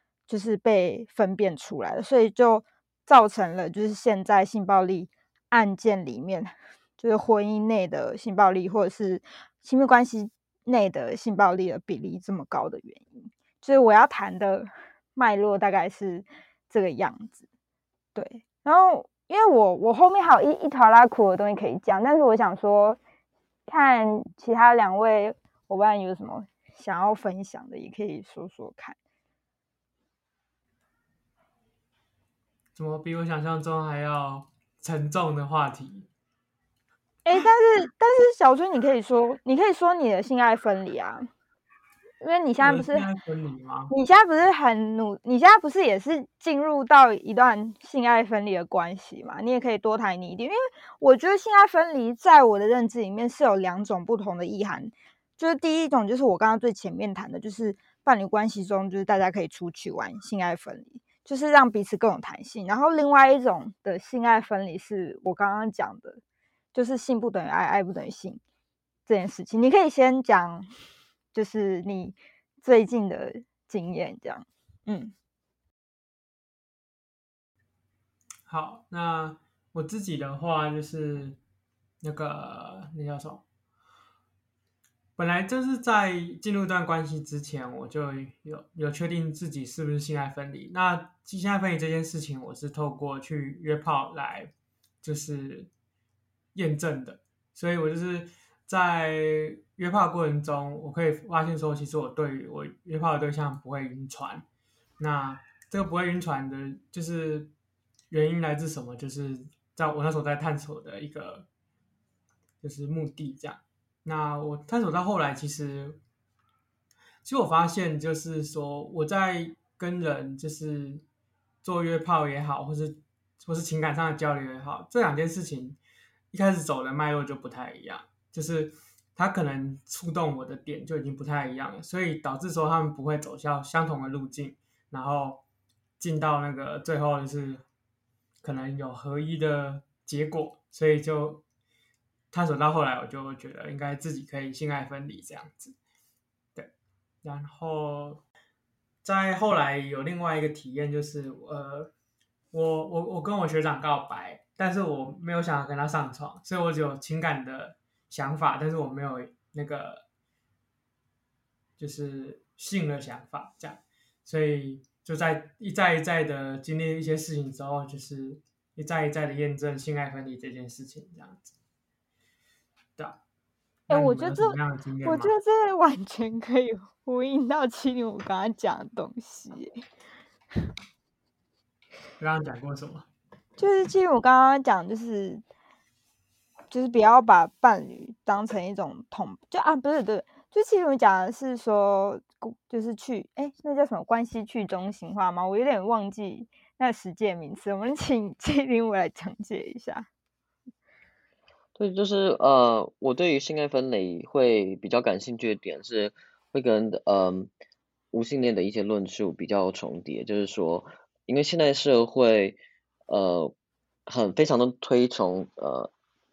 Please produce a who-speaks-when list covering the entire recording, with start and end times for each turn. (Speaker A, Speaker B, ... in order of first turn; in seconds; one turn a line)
Speaker A: 0.3-17.4
Speaker A: 18.1-23.0
Speaker A: 23.7-29.0
Speaker B: 32.8-36.1
Speaker A: 37.2-41.3
Speaker A: 42.2-43.1
Speaker B: 42.6-43.9
Speaker A: 43.9-66.2
Speaker A: 66.7-68.4
Speaker A: 69.1-70.7
Speaker A: 71.3-75.1
Speaker B: 78.5-81.4
Speaker B: 82.0-83.4
Speaker B: 85.2-94.5
Speaker B: 95.0-95.7
Speaker B: 96.5-104.5
Speaker B: 105.0-107.5
Speaker B: 108.1-111.5
Speaker B: 112.6-116.0
Speaker B: 117.2-121.0
Speaker B: 121.6-125.8
Speaker B: 126.3-135.4
Speaker B: 136.0-137.6
Speaker B: 138.4-141.4
Speaker B: 142.3-145.8
Speaker B: 147.2-148.2
Speaker B: 149.0-151.9
Speaker B: 152.5-160.1
Speaker B: 161.8-171.5
Speaker B: 173.9-175.3
Speaker A: 173.9-179.7
Speaker B: 182.2-183.1
Speaker A: 183.6-185.4
Speaker A: 186.7-200.1
Speaker C: 201.8-207.5
Speaker C: 208.1-213.5
Speaker C: 214.1-215.9